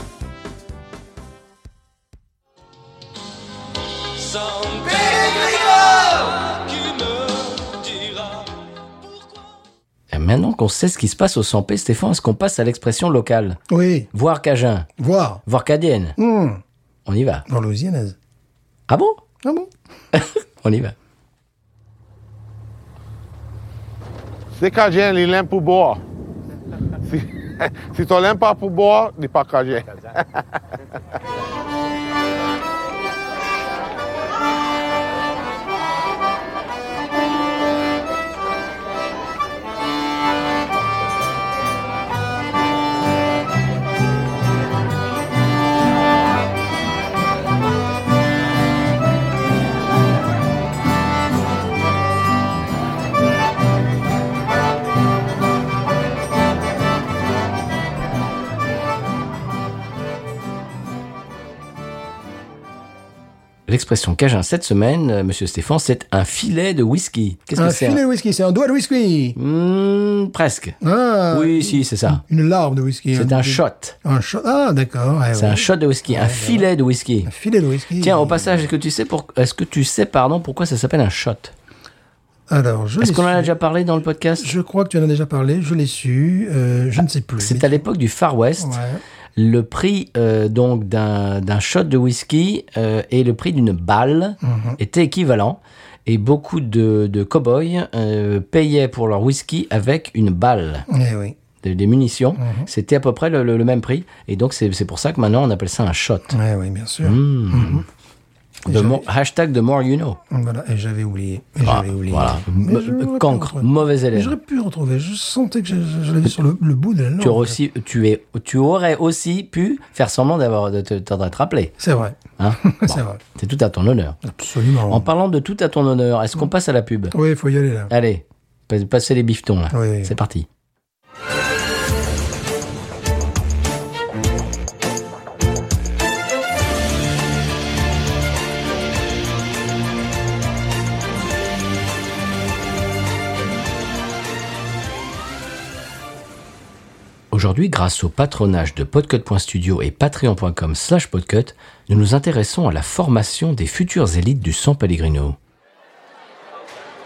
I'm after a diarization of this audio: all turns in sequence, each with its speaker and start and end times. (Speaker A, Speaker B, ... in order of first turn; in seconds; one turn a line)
Speaker A: 4.2-8.5
Speaker B: 10.1-13.6
Speaker C: 13.7-14.1
Speaker B: 14.1-14.9
Speaker C: 15.0-15.4
Speaker B: 15.4-16.2
Speaker C: 16.2-16.6
Speaker B: 17.1-17.4
Speaker C: 17.5-18.1
Speaker B: 18.9-19.2
Speaker C: 19.4-19.7
Speaker B: 20.1-20.9
Speaker D: 24.6-26.0
Speaker D: 27.0-30.6
Speaker B: 63.7-68.0
Speaker C: 67.6-69.4
Speaker B: 69.3-70.8
Speaker C: 70.8-76.7
Speaker B: 71.3-72.2
Speaker B: 73.1-74.0
Speaker B: 75.3-77.3
Speaker C: 77.2-78.6
Speaker B: 78.0-81.5
Speaker C: 82.5-83.5
Speaker B: 83.0-84.5
Speaker C: 84.4-87.8
Speaker B: 87.4-88.8
Speaker C: 88.6-89.0
Speaker B: 89.3-100.9
Speaker C: 94.4-94.8
Speaker C: 100.9-101.3
Speaker B: 101.6-106.3
Speaker C: 102.4-102.7
Speaker C: 106.3-107.8
Speaker B: 107.0-107.8
Speaker C: 108.6-109.0
Speaker B: 108.7-110.2
Speaker C: 110.3-117.6
Speaker B: 111.6-114.3
Speaker B: 117.2-121.8
Speaker C: 121.8-123.2
Speaker B: 122.4-124.2
Speaker C: 124.2-125.1
Speaker B: 124.9-127.1
Speaker C: 127.1-127.9
Speaker B: 127.9-130.5
Speaker C: 129.7-130.1
Speaker B: 147.3-155.4